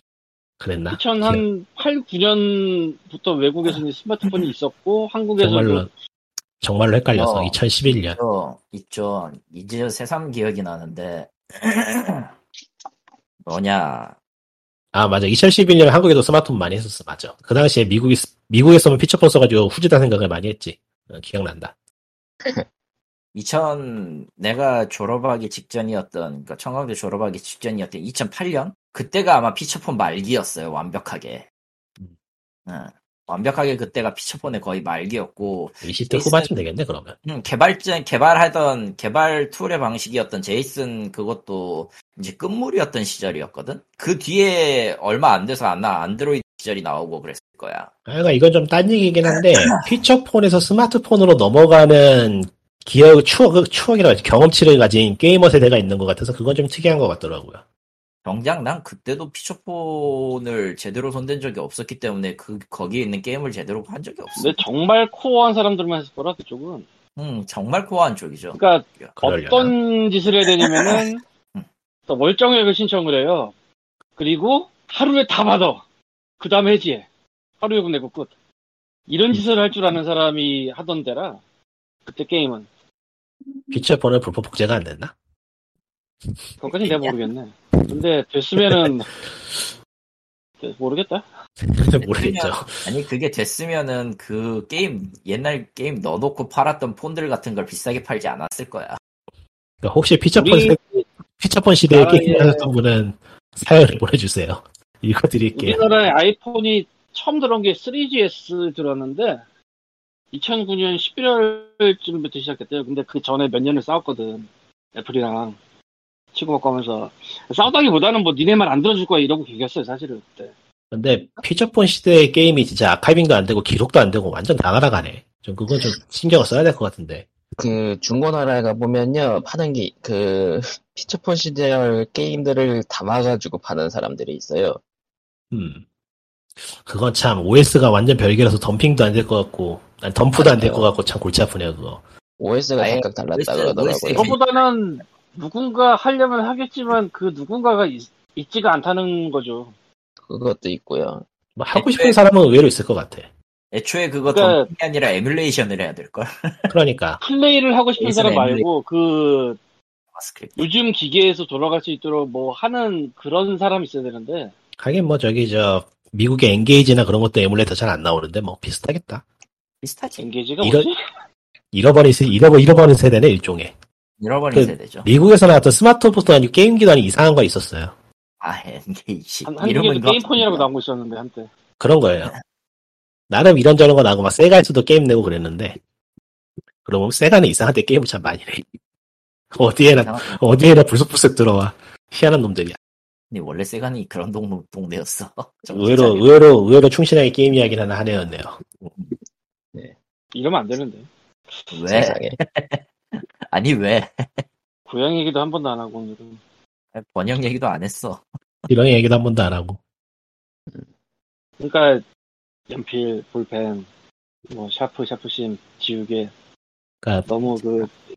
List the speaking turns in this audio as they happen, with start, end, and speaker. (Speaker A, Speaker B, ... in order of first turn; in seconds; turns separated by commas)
Speaker A: 0.6-1.4, Speaker B: 0.9-5.9, Speaker A: 5.4-5.9, Speaker A: 6.6-8.2, Speaker C: 7.1-7.6, Speaker C: 8.1-12.3, Speaker C: 13.4-14.2, Speaker A: 14.9-21.7, Speaker C: 23.3-31.4, Speaker C: 32.7-36.5, Speaker A: 35.8-37.1, Speaker C: 37.2-47.9, Speaker A: 48.1-57.6, Speaker C: 58.2-64.6, Speaker B: 64.4-66.8, Speaker C: 67.2-69.1, Speaker B: 68.5-71.2, Speaker A: 69.2-69.7, Speaker B: 72.1-73.5, Speaker B: 74.2-75.8, Speaker B: 76.4-77.0, Speaker B: 77.6-78.3, Speaker B: 79.1-81.4, Speaker B: 82.0-82.7, Speaker A: 83.7-85.1, Speaker B: 86.6-89.1, Speaker A: 88.6-88.9, Speaker B: 90.6-91.2, Speaker A: 91.7-92.8, Speaker C: 92.0-99.0, Speaker A: 99.8-100.8, Speaker B: 100.4-101.0, Speaker A: 101.4-105.8, Speaker B: 101.9-102.7, Speaker B: 105.5-109.4, Speaker B: 110.3-115.6, Speaker B: 116.3-120.5, Speaker A: 120.9-127.2, Speaker D: 127.6-134.8, Speaker A: 135.5-135.8, Speaker A: 136.7-142.0, Speaker D: 140.3-140.9, Speaker D: 142.4-144.3, Speaker C: 142.8-144.6, Speaker B: 144.1-149.7, Speaker D: 150.2-151.2, Speaker A: 151.6-153.3, Speaker C: 151.7-152.2, Speaker C: 153.7-156.7, Speaker B: 154.3-154.7, Speaker A: 156.7-157.2, Speaker B: 157.2-159.6, Speaker C: 158.0-158.6, Speaker C: 160.1-160.7, Speaker B: 160.6-164.5, Speaker A: 164.8-169.2, Speaker C: 169.8-170.3, Speaker B: 170.2-170.9, Speaker A: 170.6-170.9, Speaker A: 171.7-173.7, Speaker C: 174.2-175.1, Speaker A: 174.5-177.9, Speaker C: 178.4-180.7, Speaker B: 179.4-181.5, Speaker A: 181.8-182.3, Speaker A: 183.3-185.8, Speaker A: 186.8-188.6, Speaker A: 189.5-192.8, Speaker C: 189.9-190.4, Speaker C: 193.3-196.3, Speaker A: 195.7-198.9, Speaker B: 200.3-201.7, Speaker C: 201.7-204.4, Speaker D: 201.9-202.4, Speaker B: 204.9-206.4, Speaker C: 206.9-208.2, Speaker A: 208.7-209.8, Speaker B: 211.6-212.0, Speaker B: 212.7-213.8, Speaker B: 214.5-216.3, Speaker A: 217.0-217.3, Speaker B: 217.3-217.9